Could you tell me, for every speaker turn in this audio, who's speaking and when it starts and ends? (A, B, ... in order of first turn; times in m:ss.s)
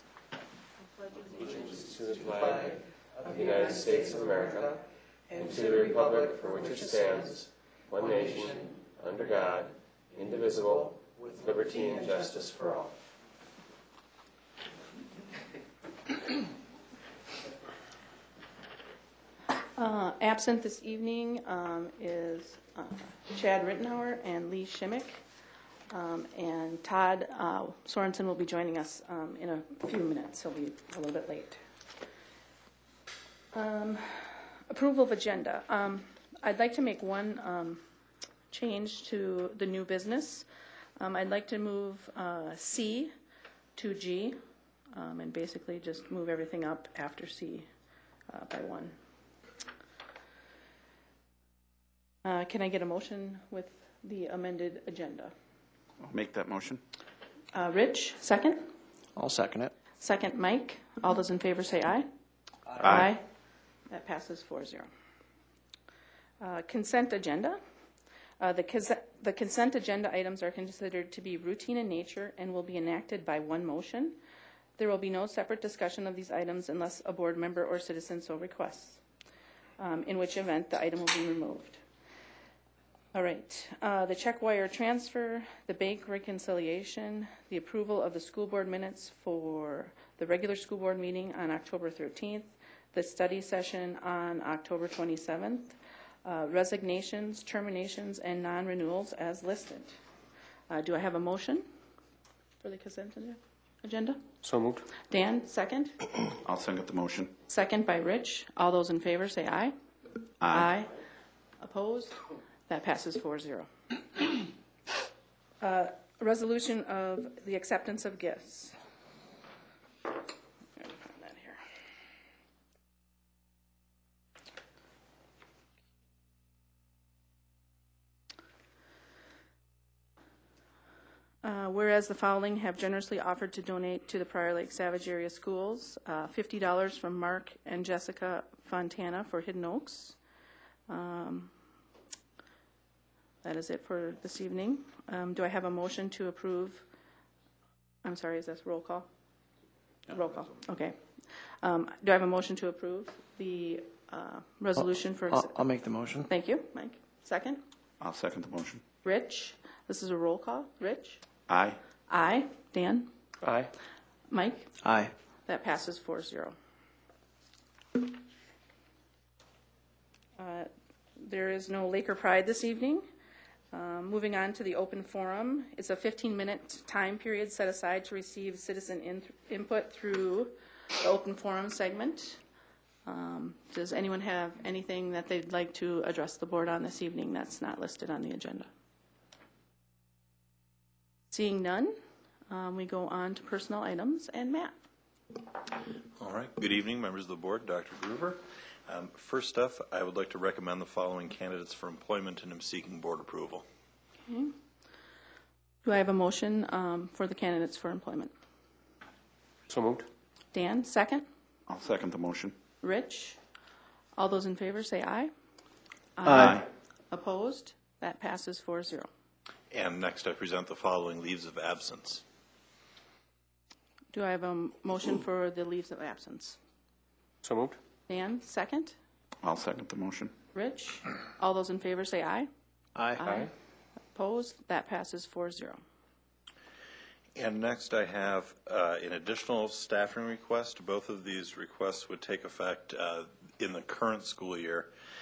0:01.3-0:04.7 A
0:05.4-0:12.9 A
0:19.8-0:25.2 B
0:25.9-0:31.6 B
0:33.5-0:37.8 B
0:38.5-0:43.1 B
0:43.8-0:44.4 B
0:44.9-0:47.7 B
0:48.3-0:49.0 B
0:52.2-0:55.3 B
0:56.0-0:56.8 C
0:57.5-0:58.7 B
0:59.2-0:59.7 D
1:00.0-1:02.1 B
1:02.8-1:03.1 C
1:02.8-1:03.2 B
1:03.9-1:04.9 B
1:06.4-1:07.6 B
1:08.4-1:14.2 B
1:14.8-1:19.0 B
1:19.8-1:21.8 B
1:23.1-1:40.0 B
1:40.7-1:41.7 B
1:42.6-1:44.2 B
1:44.4-1:44.9 A
1:45.0-1:46.0 B
1:46.4-1:47.3 C
1:47.5-1:49.7 B
1:50.4-1:50.7 C
1:50.5-1:50.9 B
1:51.6-1:53.7 B
1:55.6-1:58.8 B
2:00.8-2:01.6 B
2:11.4-2:20.2 B
2:20.9-2:21.5 B
2:23.4-2:26.8 B
2:28.0-2:29.1 B
2:30.1-2:30.5 C
2:30.1-2:35.6 B
2:34.8-2:36.3 D
2:36.2-2:37.6 B
2:38.0-2:38.8 C
2:39.0-2:41.2 B
2:41.5-2:41.8 C
2:42.1-2:43.1 B
2:43.4-2:43.7 A
2:44.3-2:44.7 B
2:44.8-2:45.1 D
2:45.4-2:46.6 B
2:50.4-2:53.0 B
2:53.7-3:02.4 B
3:03.0-3:08.7 B
3:11.3-3:14.8 B
3:16.2-3:23.6 E
3:24.3-3:24.5 B
3:25.8-3:28.3 B
3:29.7-3:30.1 A
3:30.5-3:31.3 B
3:31.7-3:32.6 C
3:32.8-3:33.4 B
3:34.2-3:35.3 B
3:36.2-3:39.1 B
3:36.2-3:36.6 D
3:36.3-3:36.6 C
3:39.7-3:42.2 E
3:44.1-3:46.6 B
3:47.4-3:47.8 A
3:48.1-3:49.0 B
3:49.4-3:50.3 C
3:50.5-3:52.5 B
3:53.2-3:53.5 B
3:53.2-3:53.5 A
3:54.1-3:55.8 B
3:57.3-4:04.9 E